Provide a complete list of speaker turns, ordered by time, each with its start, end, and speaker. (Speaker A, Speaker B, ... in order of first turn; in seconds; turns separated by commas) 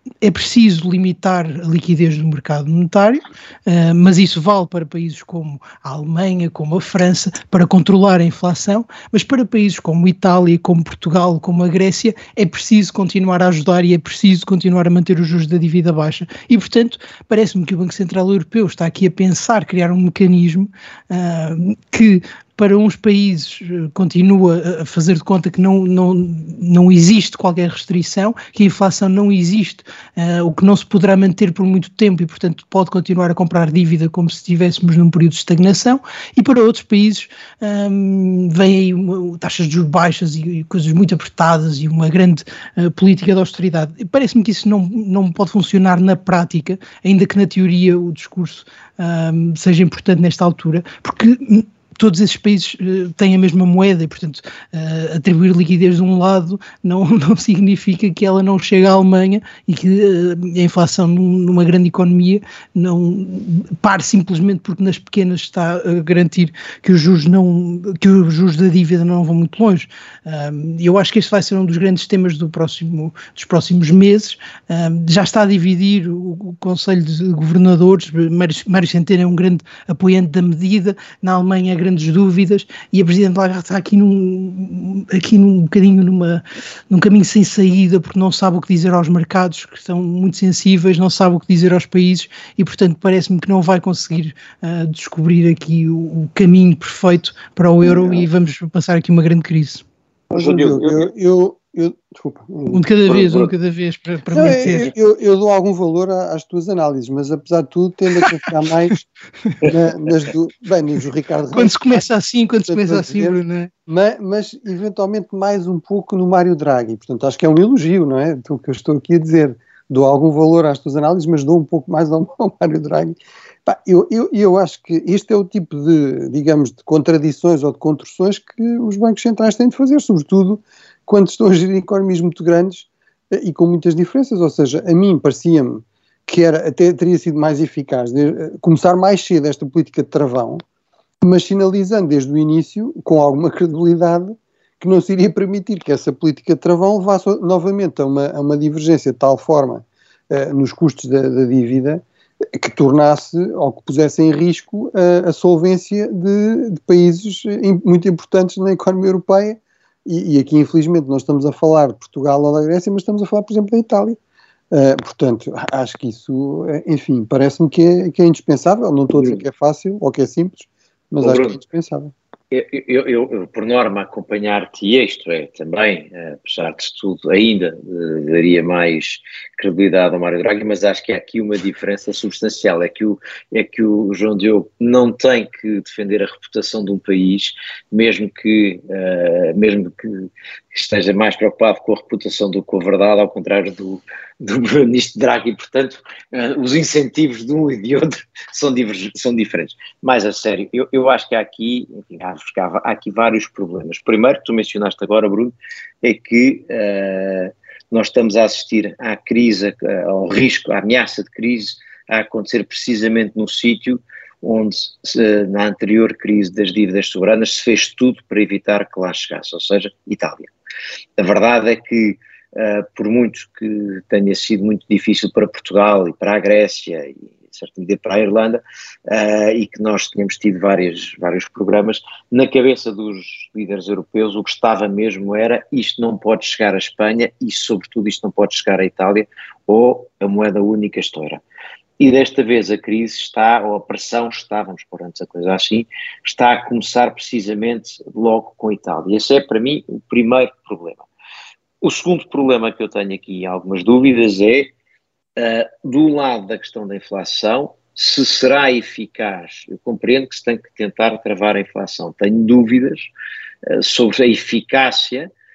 Speaker A: 0.2-99.8, Speaker B: 100.3-101.1, Speaker C: 100.3-102.9, Speaker A: 102.7-104.9, Speaker B: 103.1-103.5, Speaker C: 104.3-109.0, Speaker A: 108.2-108.5, Speaker C: 109.6-112.0, Speaker A: 111.5-113.7, Speaker C: 112.7-140.6, Speaker C: 141.2-164.2, Speaker C: 164.7-172.1, Speaker B: 169.2-169.4, Speaker B: 171.2-171.6, Speaker B: 172.5-220.5, Speaker B: 221.2-241.4, Speaker B: 242.0-251.1, Speaker B: 251.8-254.7, Speaker B: 255.4-263.1, Speaker B: 263.7-265.3